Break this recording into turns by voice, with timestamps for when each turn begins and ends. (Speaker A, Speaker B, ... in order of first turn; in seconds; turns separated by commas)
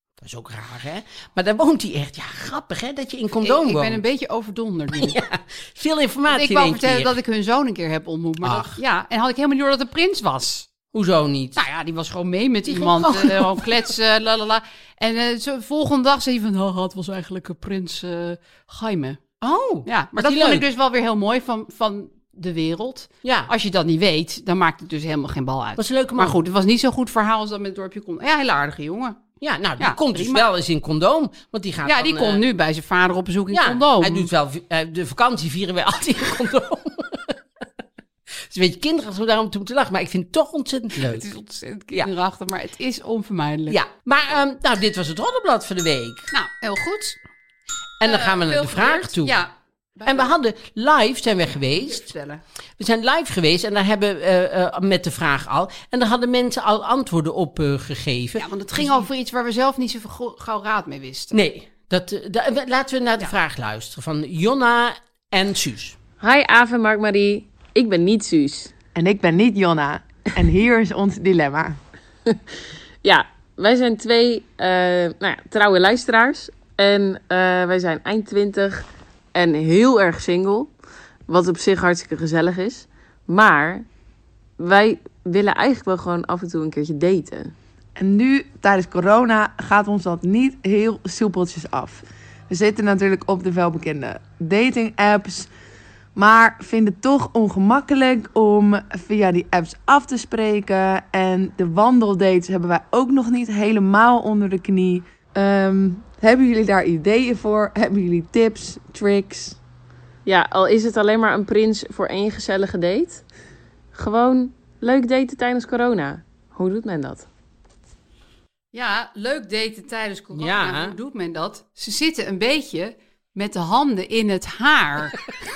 Speaker A: 0.2-4.0, Speaker B: 3.4-5.2, Speaker A: 4.9-7.2, Speaker B: 6.3-10.7, Speaker A: 8.4-8.8, Speaker A: 10.9-11.6, Speaker B: 11.6-19.2, Speaker A: 12.7-13.9, Speaker A: 19.4-20.6, Speaker B: 19.9-29.2, Speaker A: 23.2-23.5, Speaker A: 25.8-26.4, Speaker A: 29.4-32.4, Speaker B: 29.8-30.5, Speaker B: 31.9-34.3, Speaker A: 33.5-37.4, Speaker A: 38.5-41.3, Speaker B: 41.0-43.8, Speaker A: 43.7-46.3, Speaker B: 46.3-47.2, Speaker A: 48.0-49.4, Speaker B: 48.0-50.3, Speaker A: 50.1-52.1, Speaker B: 51.6-52.4, Speaker A: 52.8-59.1, Speaker B: 58.4-61.4, Speaker A: 61.3-66.0, Speaker C: 66.2-68.8, Speaker D: 69.0-71.8, Speaker C: 73.0-80.7, Speaker C: 81.3-83.8, Speaker C: 84.6-87.5, Speaker D: 88.0-95.5, Speaker D: 96.2-109.6, Speaker C: 110.3-113.2, Speaker C: 113.9-117.3, Speaker B: 118.7-125.2, Speaker A: 120.3-121.0